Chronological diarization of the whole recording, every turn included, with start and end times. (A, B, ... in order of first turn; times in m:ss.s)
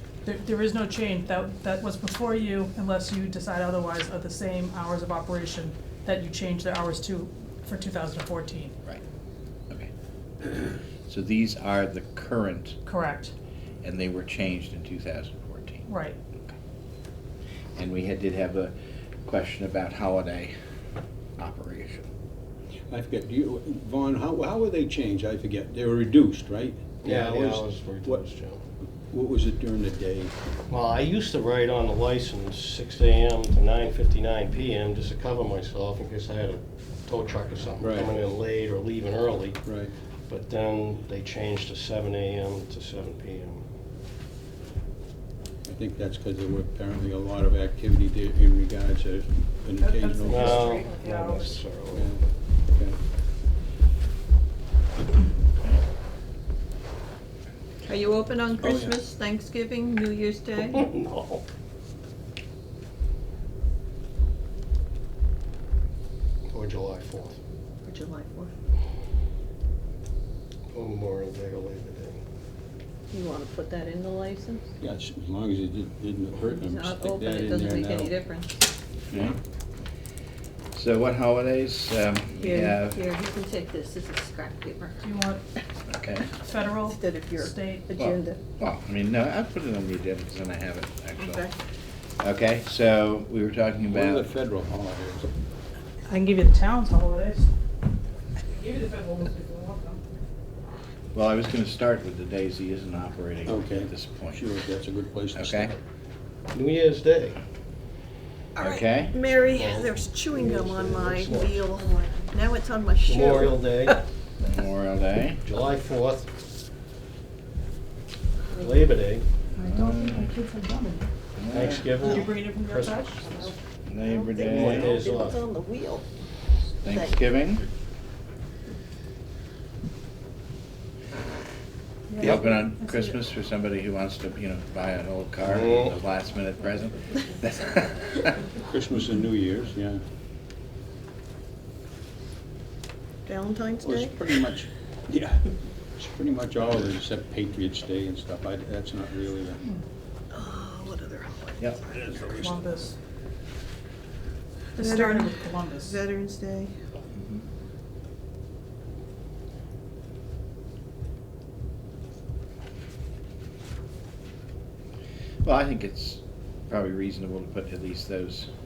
0:00.2-0:08.7 A
0:11.1-0:12.8 B
0:12.8-0:13.3 A
0:13.8-0:15.9 B
0:15.9-0:16.2 A
0:17.8-0:18.7 B
0:19.2-0:20.5 B
0:21.4-0:22.1 B
0:22.9-0:28.2 C
0:27.0-0:28.6 D
0:29.0-0:30.3 C
0:30.7-0:39.6 D
0:37.8-0:38.2 C
0:39.6-0:39.9 C
0:40.3-0:43.6 D
0:45.6-0:50.8 C
0:49.8-0:51.6 A
0:50.3-0:52.2 D
0:51.9-0:53.0 C
0:57.8-1:01.0 E
0:58.6-0:59.0 C
1:06.5-1:07.4 D
1:07.8-1:08.5 E
1:10.7-1:12.2 D
1:13.1-1:14.7 E
1:14.8-1:18.2 C
1:16.6-1:18.6 E
1:19.1-1:19.4 B
1:20.7-1:23.0 B
1:22.4-1:25.1 E
1:25.0-1:25.4 A
1:25.9-1:26.3 B
1:26.4-1:27.9 A
1:26.8-1:28.4 E
1:28.0-1:31.5 B
1:31.2-1:31.5 E
1:32.2-1:34.3 B
1:33.9-1:35.3 C
1:36.1-1:37.5 A
1:38.5-1:40.0 A
1:41.1-1:44.4 B
1:43.4-1:45.8 C
1:45.3-1:45.7 B
1:46.5-1:47.4 D
1:48.6-1:54.0 E
1:48.6-1:49.2 B
1:49.4-1:51.8 D
1:53.0-1:54.0 D
1:54.4-1:55.4 B
1:55.4-1:56.3 D
1:58.5-1:59.2 D
1:59.6-2:00.3 B
1:59.6-2:01.1 A
2:01.4-2:02.1 B
2:01.5-2:03.2 D
2:01.9-2:03.5 A
2:03.2-2:06.1 E
2:03.8-2:05.0 B
2:04.4-2:05.4 D
2:06.8-2:07.7 B
2:06.9-2:07.2 E
2:12.1-2:13.2 A
2:12.2-2:18.4 B
2:15.4-2:15.9 D
2:18.7-2:20.0 C
2:23.2-2:24.2 E
2:23.8-2:29.6 C
2:30.3-2:31.8 E
2:31.8-2:32.6 C
2:32.4-2:33.0 A
2:34.8-2:36.0 A
2:34.8-2:36.7 E
2:37.1-2:37.4 B
2:45.4-2:48.5 B